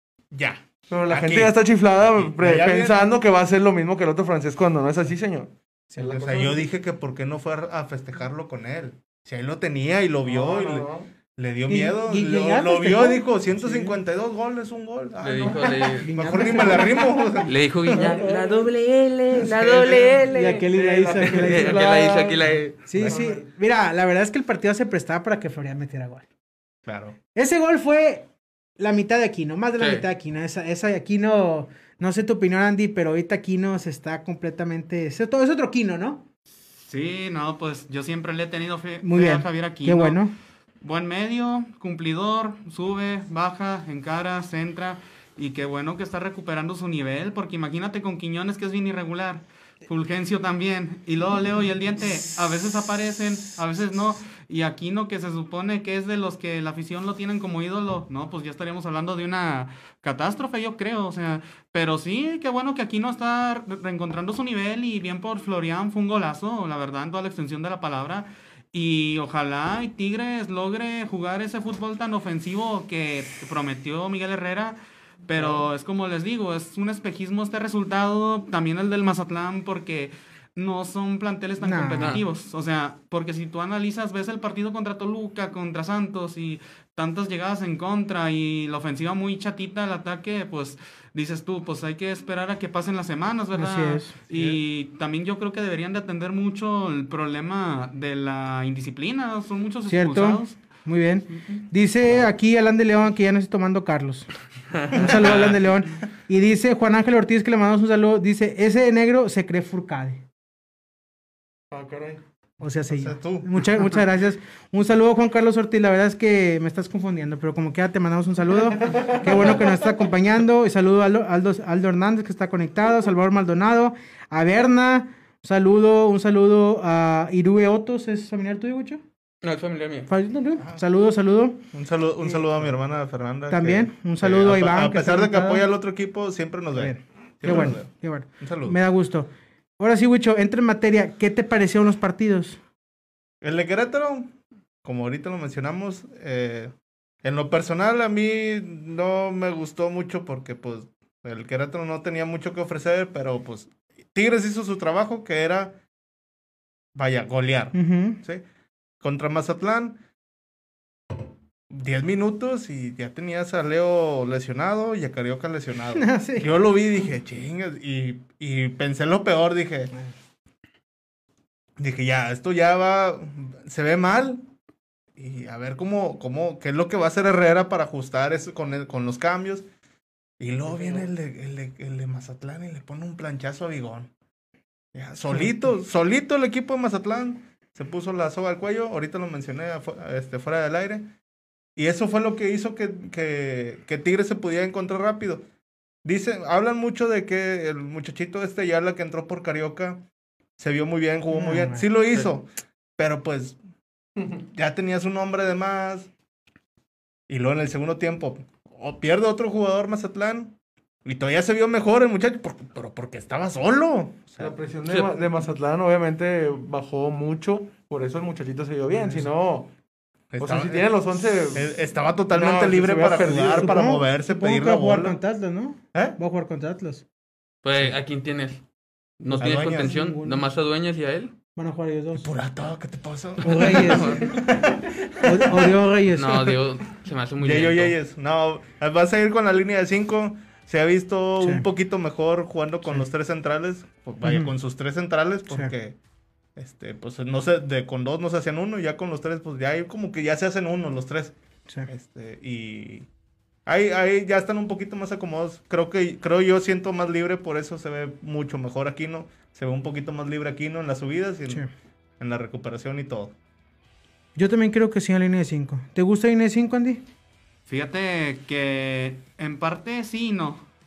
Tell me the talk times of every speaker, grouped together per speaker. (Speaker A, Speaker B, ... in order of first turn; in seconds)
Speaker A: 0.3-3.0, 6.0-18.2, 19.4-20.2, 26.9-27.2, 94.3-94.6, 112.9-113.8, 131.7-138.8, 143.4-144.3, 144.8-146.7, 147.2-155.8, 156.9-158.4, 159.0-160.0, 161.7-169.9, 171.8-174.4, 175.2-179.7, 180.4-184.1, 184.9-191.1, 191.8-195.5, 196.0-200.0, 200.6-203.6, 204.5-206.1, 207.3-214.5, 220.3-225.2, 229.4-230.0, 232.2-235.8, 237.4-246.0, 246.6-251.3, 251.9-253.1, 253.7-261.6, 262.2-263.4
Speaker B: 0.9-6.5, 10.2-11.1, 20.6-22.4, 22.9-23.5, 111.7-112.2, 118.8-119.8, 214.4-219.7, 220.4-221.8, 222.3-223.8
Speaker C: 5.9-6.6, 11.7-14.0, 16.0-17.2, 18.0-18.3, 20.3-26.2, 27.3-28.3, 28.8-36.2, 39.0-40.3, 81.6-82.2, 93.5-94.1, 99.9-104.3, 104.9-110.2, 112.6-129.0, 130.1-131.6, 133.5-135.7, 136.8-142.6, 157.7-158.2, 165.9-166.5, 201.3-201.9, 223.2-227.0, 229.3-230.5, 231.6-232.3, 233.4-234.3, 235.2-236.6, 244.2-244.5, 264.4-267.0
Speaker D: 15.2-16.1, 17.4-20.6, 21.3-22.9, 29.8-30.1, 82.0-82.2, 105.1-105.5, 129.4-130.1, 227.6-228.6, 229.2-231.3, 233.6-234.3, 236.1-238.0
Speaker E: 36.8-40.2, 40.8-100.6, 267.7-270.6